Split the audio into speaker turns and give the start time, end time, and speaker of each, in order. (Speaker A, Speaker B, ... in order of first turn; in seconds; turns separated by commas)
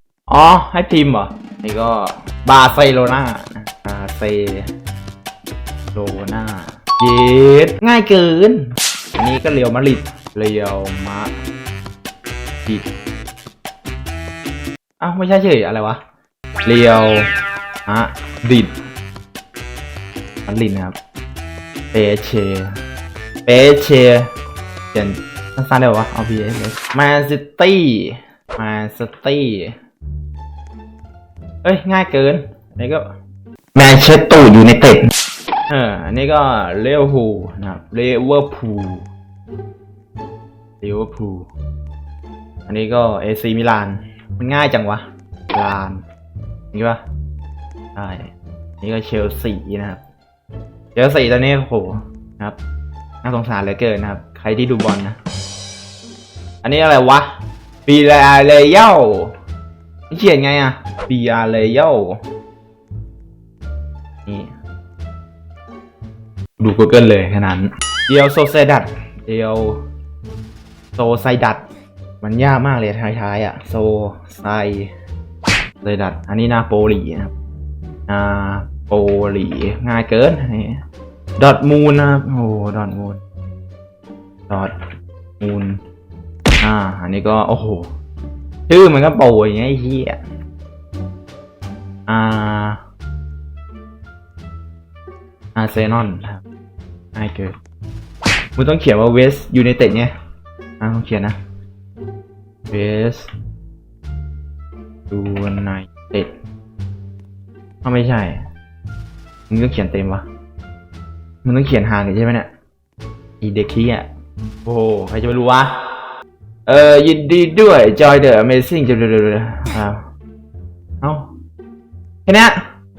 Speaker A: 0.3-4.6, Speaker A: 5.9-8.7, Speaker A: 9.2-11.3, Speaker A: 15.0-16.0, Speaker A: 16.6-17.2, Speaker A: 17.9-18.7, Speaker A: 20.4-20.9, Speaker A: 21.9-22.7, Speaker A: 23.4-24.3, Speaker A: 24.9-29.7, Speaker A: 31.6-33.0, Speaker A: 33.7-35.0, Speaker A: 35.7-39.0, Speaker A: 40.8-41.5, Speaker A: 42.7-46.0, Speaker A: 46.7-47.0, Speaker A: 48.0-48.3, Speaker A: 48.8-50.0, Speaker A: 50.9-52.6, Speaker A: 53.2-55.2, Speaker A: 56.6-57.2, Speaker A: 57.9-59.3, Speaker A: 60.1-62.2, Speaker A: 66.6-69.8, Speaker A: 71.0-71.6, Speaker A: 72.2-74.9, Speaker A: 75.8-77.3, Speaker A: 78.1-80.8, Speaker A: 81.4-83.2, Speaker A: 85.4-85.8, Speaker A: 86.6-87.8, Speaker A: 88.7-90.2, Speaker A: 92.1-92.8, Speaker A: 95.5-96.4, Speaker A: 97.1-97.5, Speaker A: 98.5-100.1, Speaker A: 100.8-101.3, Speaker A: 102.7-103.3, Speaker A: 105.1-106.3, Speaker A: 107.8-108.4, Speaker A: 109.5-110.2, Speaker A: 111.4-112.5, Speaker A: 113.4-114.1, Speaker A: 114.6-115.7, Speaker A: 116.7-120.0, Speaker A: 121.0-121.3, Speaker A: 122.2-122.6